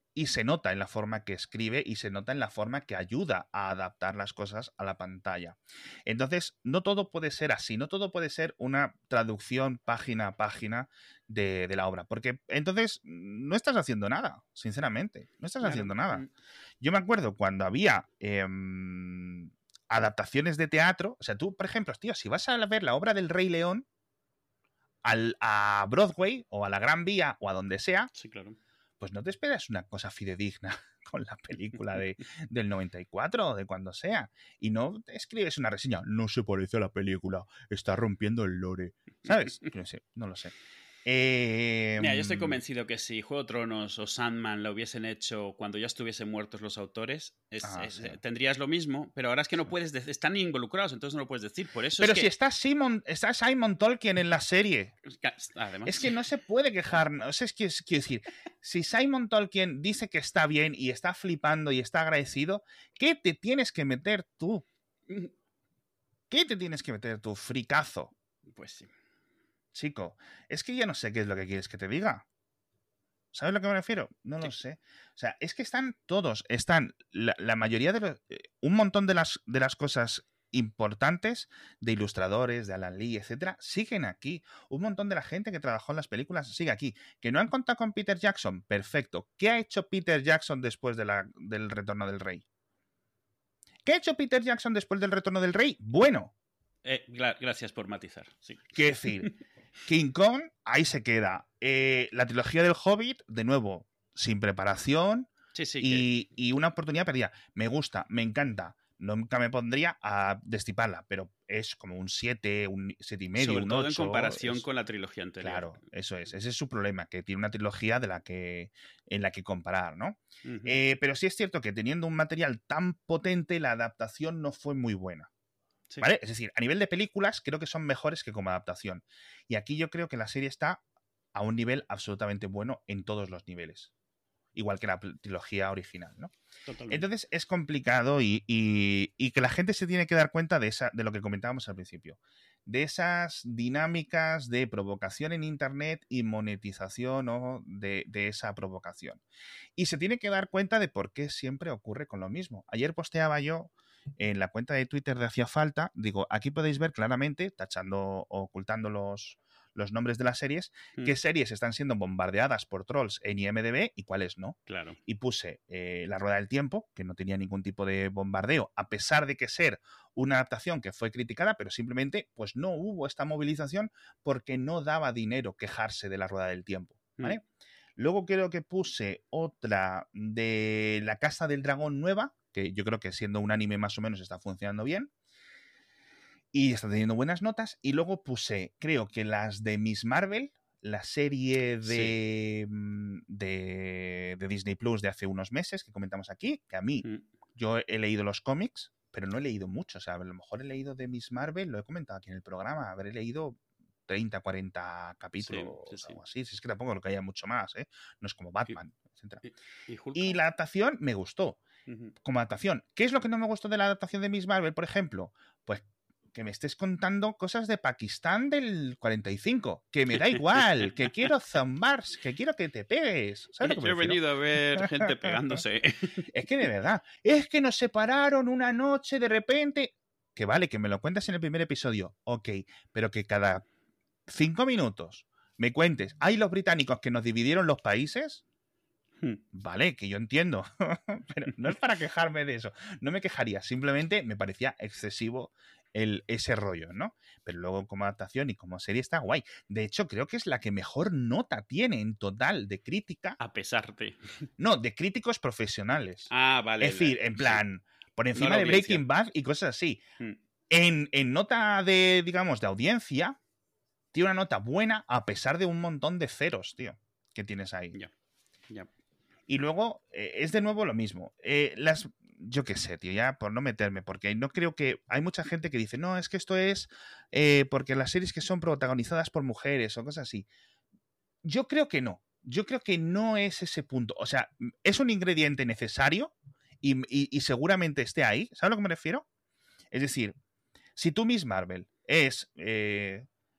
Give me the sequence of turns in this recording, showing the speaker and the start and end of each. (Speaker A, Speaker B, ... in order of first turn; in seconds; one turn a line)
Speaker A: 0.1-16.3
Speaker B: 15.6-16.3
Speaker A: 16.8-23.9
Speaker A: 25.0-28.1
Speaker B: 28.1-28.6
Speaker A: 29.0-40.5
Speaker A: 41.0-42.6
Speaker B: 42.0-52.3
Speaker A: 47.6-48.2
Speaker A: 52.0-55.0
Speaker B: 55.0-56.2
Speaker A: 55.9-64.7
Speaker A: 66.3-68.1
Speaker B: 68.5-68.9
Speaker A: 69.7-72.3
Speaker A: 73.3-92.4
Speaker A: 93.8-96.3
Speaker B: 96.8-98.7
Speaker A: 98.7-99.3
Speaker A: 99.9-114.6
Speaker B: 105.5-106.1
Speaker B: 113.3-115.8
Speaker A: 115.4-125.3
Speaker B: 120.4-120.8
Speaker A: 126.0-130.8
Speaker A: 131.3-133.9
Speaker A: 134.6-136.3
Speaker B: 136.7-137.1
Speaker A: 136.9-149.2
Speaker A: 149.8-177.4
Speaker B: 164.7-165.0
Speaker A: 178.0-185.1
Speaker A: 186.5-209.4
Speaker B: 191.8-192.1
Speaker B: 205.4-206.2
Speaker B: 209.4-210.4
Speaker A: 210.2-211.6
Speaker B: 211.9-212.1
Speaker A: 212.2-224.2
Speaker B: 220.2-221.0
Speaker B: 223.6-226.3
Speaker A: 224.7-225.6
Speaker A: 226.3-233.7
Speaker A: 234.3-238.4
Speaker A: 239.5-253.4
Speaker B: 253.4-254.2
Speaker A: 254.6-260.0
Speaker B: 256.3-257.6
Speaker B: 258.4-259.0
Speaker A: 260.7-263.4
Speaker A: 264.1-268.0
Speaker A: 269.5-280.5
Speaker A: 281.4-289.2
Speaker A: 289.9-290.4
Speaker A: 291.0-293.3